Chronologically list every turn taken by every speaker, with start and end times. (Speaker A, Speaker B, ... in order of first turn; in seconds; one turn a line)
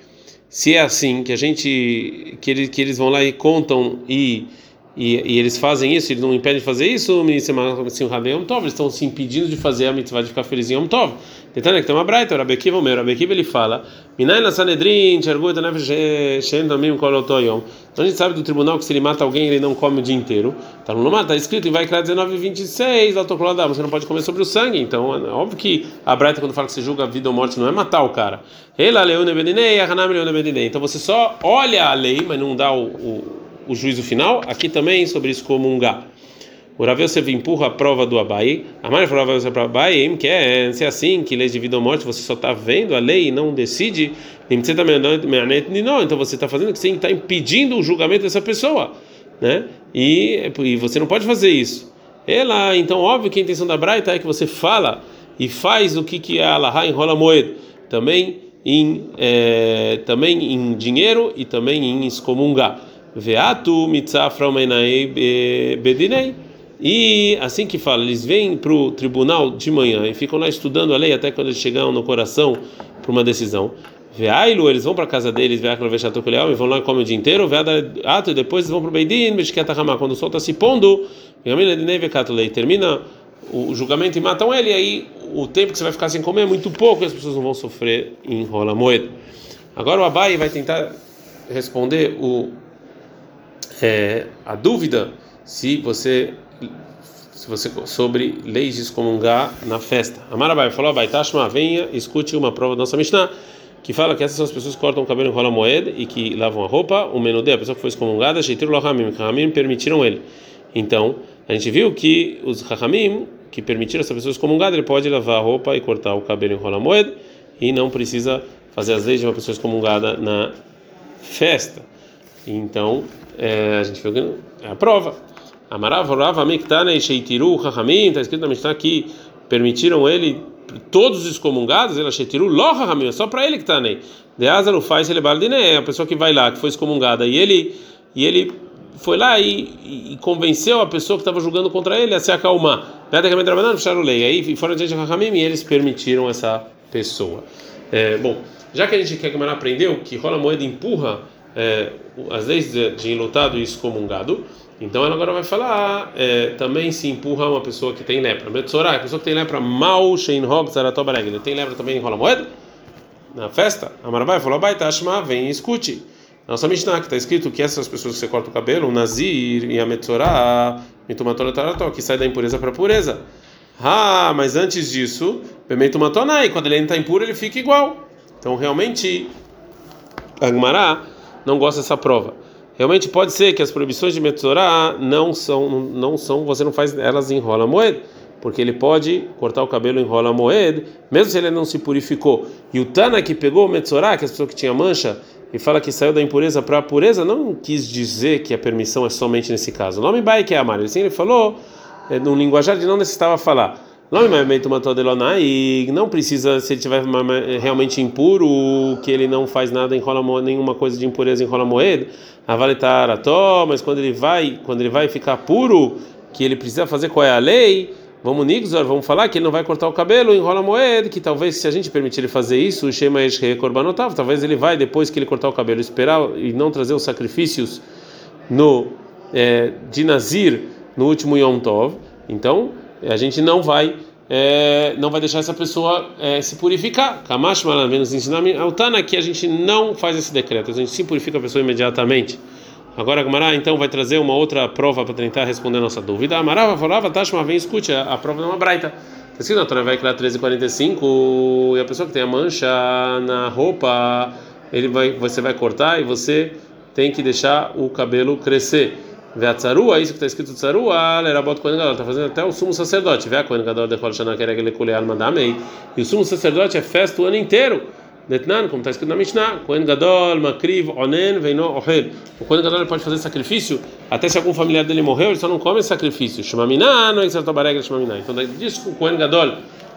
Speaker A: 0.5-36.1
Speaker A: 36.8-89.1
Speaker A: 89.7-90.9
Speaker A: 91.5-92.6
Speaker A: 93.8-96.7
Speaker A: 97.3-103.3
Speaker A: 103.8-120.5
Speaker A: 121.2-121.9
Speaker A: 122.5-162.5
Speaker A: 163.3-173.2
Speaker A: 173.8-179.3
Speaker A: 180.4-227.8
Speaker A: 228.5-242.4
Speaker A: 242.9-279.6